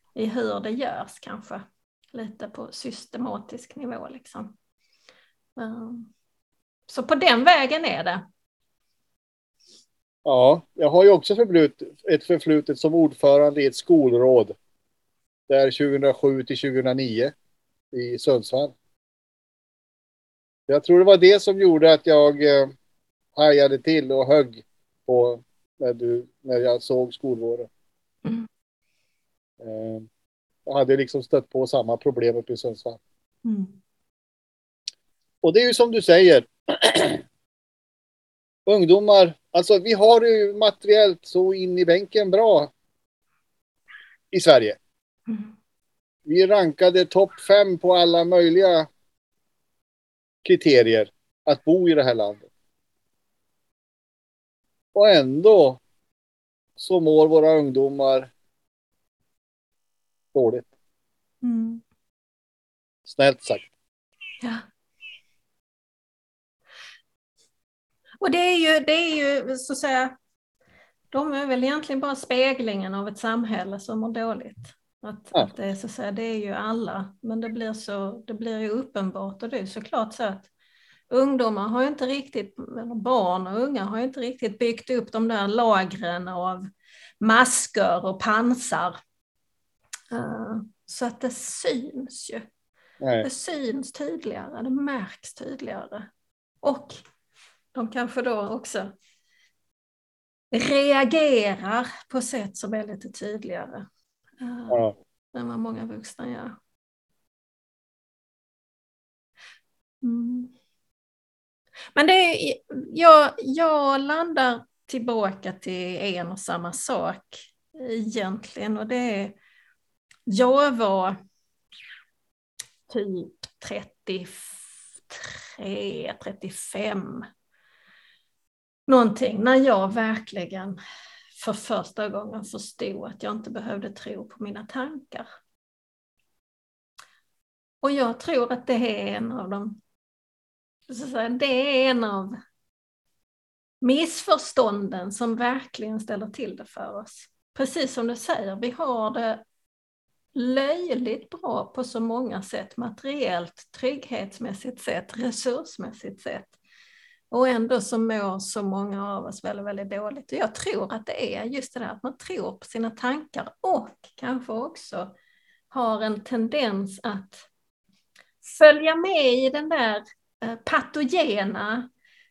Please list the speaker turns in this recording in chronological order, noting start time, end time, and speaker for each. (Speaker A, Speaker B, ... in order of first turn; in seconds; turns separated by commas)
Speaker A: 0.2-4.5, Speaker A: 5.6-6.1, Speaker A: 6.9-8.2, Speaker B: 10.2-14.6, Speaker B: 15.5-17.3, Speaker B: 17.9-18.7, Speaker B: 20.7-22.7, Speaker B: 23.4-27.7, Speaker B: 29.6-30.1, Speaker B: 30.7-33.0, Speaker A: 33.4-33.8, Speaker B: 35.4-37.2, Speaker B: 38.7-42.7, Speaker B: 44.3-44.8, Speaker B: 46.2-48.9, Speaker B: 50.4-52.5, Speaker B: 54.9-55.8, Speaker B: 56.8-58.3, Speaker B: 60.3-60.7, Speaker A: 61.4-61.8, Speaker B: 63.1-63.7, Speaker A: 68.2-70.1, Speaker A: 71.1-80.5, Speaker A: 81.1-86.7, Speaker A: 87.2-89.0, Speaker A: 90.1-92.5, Speaker B: 93.0-93.3, Speaker A: 93.2-96.1, Speaker A: 96.6-97.0, Speaker A: 97.7-98.9, Speaker A: 100.5-103.9, Speaker A: 104.4-106.6, Speaker A: 110.0-110.5, Speaker A: 111.9-119.3, Speaker A: 120.3-121.2, Speaker A: 122.9-127.3, Speaker A: 128.9-130.8, Speaker A: 131.4-135.3, Speaker A: 137.8-139.8, Speaker A: 140.9-142.4, Speaker A: 143.8-149.4, Speaker A: 150.3-156.6, Speaker A: 157.3-165.1, Speaker A: 165.7-167.5, Speaker A: 168.4-171.9